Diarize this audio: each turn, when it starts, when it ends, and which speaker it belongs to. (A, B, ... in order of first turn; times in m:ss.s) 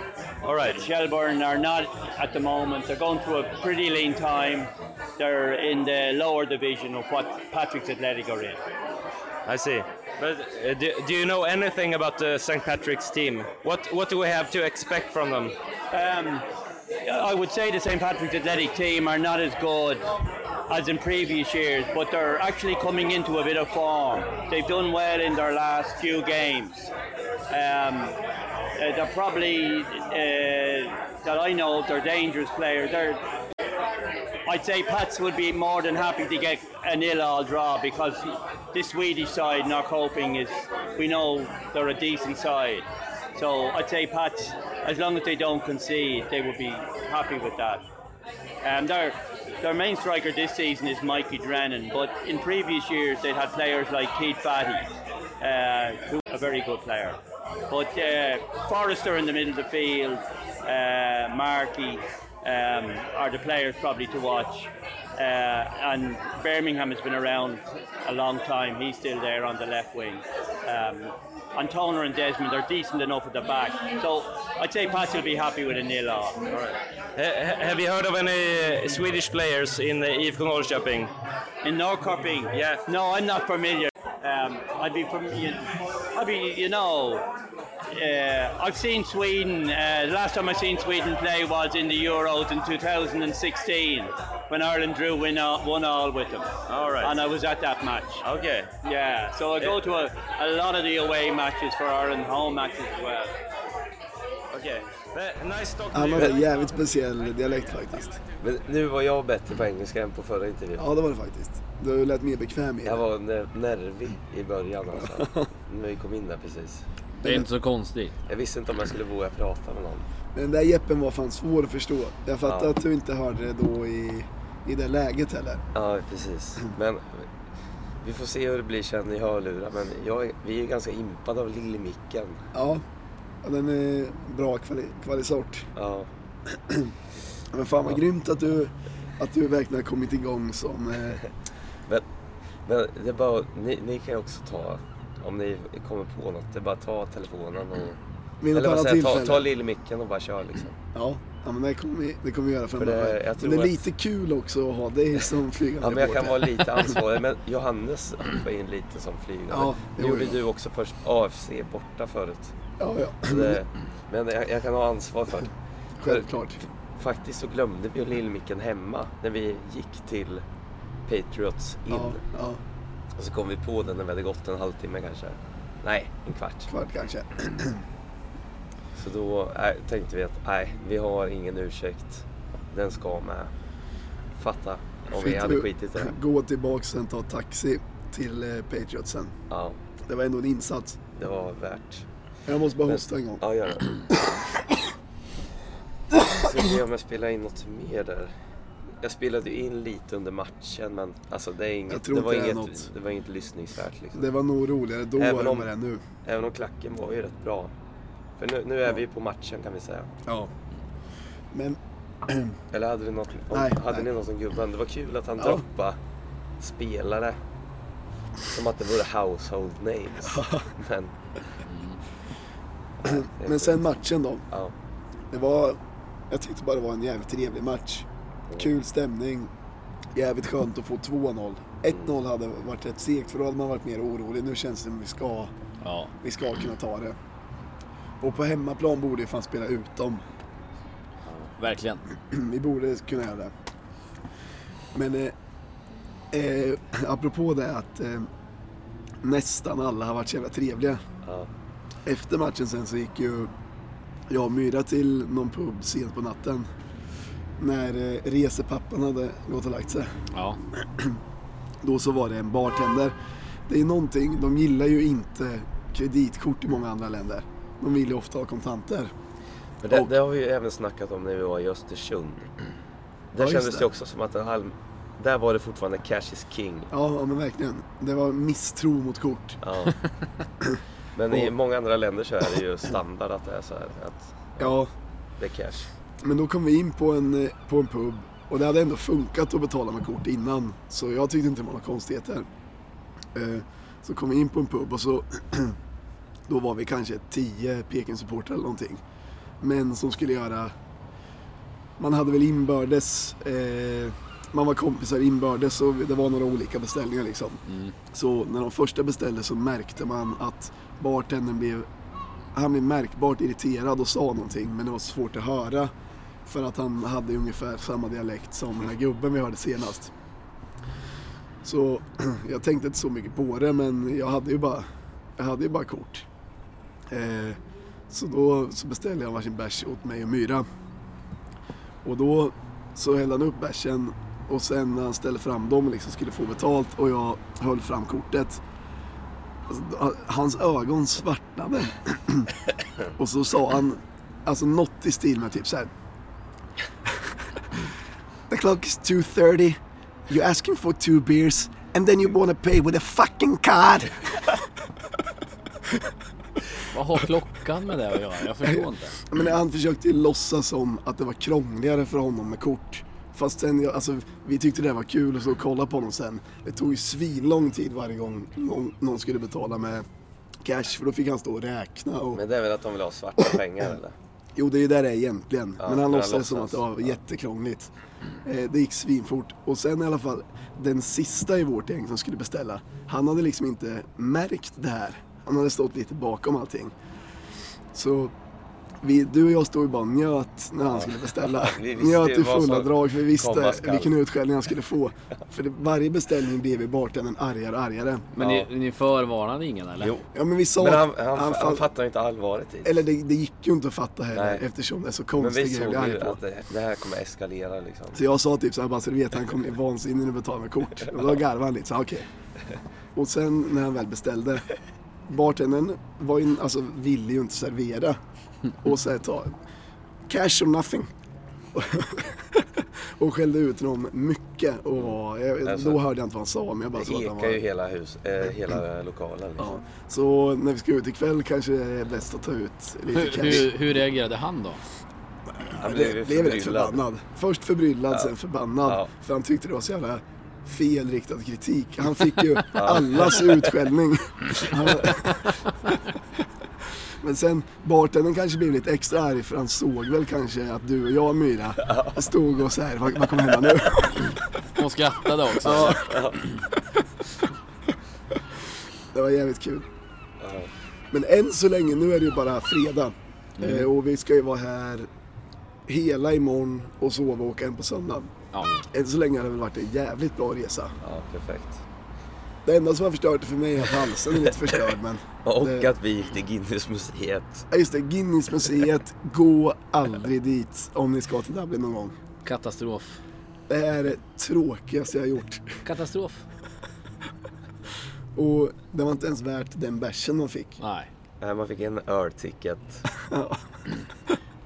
0:00.4-0:00.8 A
0:00.6-0:08.6 B
0:09.5-0:15.6 A
0:15.9-0:16.4 B
0:17.0-0:20.1 B
0:20.7-0:26.9 B
0:27.5-0:28.2 B
0:28.8-0:33.2 B
0:34.5-0:47.8 B
0:48.6-0:54.9 B
0:55.4-0:57.2 B
0:57.7-1:16.4 B
1:16.5-1:21.1 A
1:21.6-1:27.2 B
1:22.5-1:22.8 A
1:27.9-1:36.5 B
1:36.7-1:37.2 A
1:37.0-1:38.2 B
1:38.2-1:38.7 A
1:38.8-1:43.4 B
1:44.5-1:46.4 A
1:45.9-1:48.2 C
1:48.4-1:50.9 D
1:50.8-1:53.0 C
1:52.8-1:56.9 D
1:54.9-1:55.5 C
1:57.2-1:57.5 C
1:57.2-1:58.2 E
1:58.3-2:00.1 D
2:00.4-2:05.6 C
2:02.4-2:02.8 D
2:05.7-2:07.3 D
2:08.0-2:12.4 D
2:12.5-2:12.8 C
2:13.4-2:15.7 C
2:15.8-2:16.1 D
2:17.5-2:21.2 C
2:22.6-2:28.0 D
2:28.4-2:29.5 C
2:28.5-2:30.8 D
2:31.0-2:37.0 C
2:32.8-2:33.8 D
2:35.8-2:42.5 D
2:39.5-2:40.4 C
2:42.8-2:43.6 C
2:43.2-2:50.4 D
2:46.0-2:46.6 C
2:51.1-2:52.2 D
2:51.9-2:52.6 C
2:53.2-2:56.7 D
2:56.7-2:57.8 C
2:59.0-3:03.5 D
3:04.4-3:06.2 D
3:05.1-3:09.4 C
3:09.5-3:09.8 D
3:10.1-3:11.0 C
3:11.2-3:12.1 D
3:12.5-3:13.4 C
3:12.9-3:14.3 D
3:16.2-3:18.3 D
3:19.0-3:24.3 D
3:21.9-3:22.9 C
3:24.2-3:26.0 C
3:25.2-3:25.7 D
3:26.2-3:27.7 D
3:28.4-3:30.1 D
3:30.3-3:30.5 C
3:31.5-3:32.6 C
3:32.7-3:36.0 D
3:33.5-3:34.1 C
3:35.4-3:35.6 C
3:36.6-3:37.4 D
3:38.5-3:41.1 D
3:40.2-3:40.7 C
3:41.6-3:42.0 E
3:43.0-3:44.0 D
3:43.0-3:44.4 C
3:45.3-3:45.8 C
3:46.3-3:49.5 C
3:50.1-3:55.5 C
3:55.8-3:56.1 E
3:56.2-3:57.2 C
3:58.2-4:00.2 C
4:01.3-4:01.5 D
4:01.6-4:02.0 E
4:02.3-4:03.5 C
4:04.9-4:05.4 C
4:06.3-4:08.3 C
4:09.2-4:11.0 C
4:11.2-4:11.5 D
4:12.0-4:13.5 C
4:14.3-4:16.7 C
4:17.6-4:20.2 C
4:20.3-4:20.6 E
4:21.8-4:23.2 C
4:23.7-4:29.1 C
4:29.8-4:32.5 D
4:33.3-4:36.9 D
4:33.4-4:33.9 C
4:36.9-4:39.6 C
4:39.6-4:40.0 D
4:41.2-4:44.9 D
4:44.6-4:44.9 C
4:45.4-4:45.9 D
4:46.2-4:52.5 C
4:53.4-4:55.8 C
4:56.5-4:59.0 C
4:59.6-5:00.7 C
5:02.0-5:11.9 C
5:07.7-5:07.9 E
5:12.5-5:15.9 C
5:16.5-5:20.1 C
5:21.6-5:26.3 C
5:27.1-5:27.6 C
5:28.1-5:30.7 C
5:32.0-5:38.6 C
5:39.7-5:42.5 C
5:43.2-5:45.9 C
5:48.5-5:54.6 C
5:56.9-5:59.2 E
5:58.7-6:10.1 C
6:10.6-6:12.4 C
6:12.3-6:14.2 D
6:14.6-6:17.9 C
6:15.8-6:17.1 D
6:18.4-6:26.9 C
6:27.9-6:28.3 C
6:29.0-6:38.3 C
6:30.9-6:34.1 D
6:38.4-6:38.7 D
6:38.4-6:40.1 E
6:40.0-6:43.0 D
6:40.3-6:41.9 C
6:42.8-6:46.4 C
6:44.3-6:44.6 D
6:45.4-6:48.2 D
6:48.1-6:52.3 C
6:53.2-6:54.7 C
6:55.3-6:58.2 C
6:58.8-6:59.6 C
7:00.3-7:01.1 C
7:01.7-7:07.6 C
7:05.0-7:06.0 D
7:07.0-7:09.8 D
7:09.6-7:13.7 C
7:13.1-7:14.8 E
7:15.7-7:25.5 C
7:15.8-7:17.1 D
7:18.8-7:19.1 D
7:22.7-7:23.7 D
7:27.2-7:34.4 C
7:31.8-7:32.2 D
7:34.8-7:36.1 E
7:35.6-7:36.3 C
7:35.9-7:36.4 D
7:39.1-7:39.9 C
7:40.4-7:40.7 D
7:41.1-7:45.1 C
7:43.6-7:43.9 E
7:45.9-7:48.3 C
7:48.9-7:51.0 C
7:51.0-7:51.8 D
7:52.6-7:55.9 C
7:55.4-7:57.7 D
7:57.7-8:02.2 C
8:02.4-8:03.2 E
8:03.7-8:05.6 C
8:05.8-8:06.5 E
8:08.4-8:10.8 C
8:10.8-8:11.1 E
8:11.4-8:13.0 D
8:13.2-8:13.6 C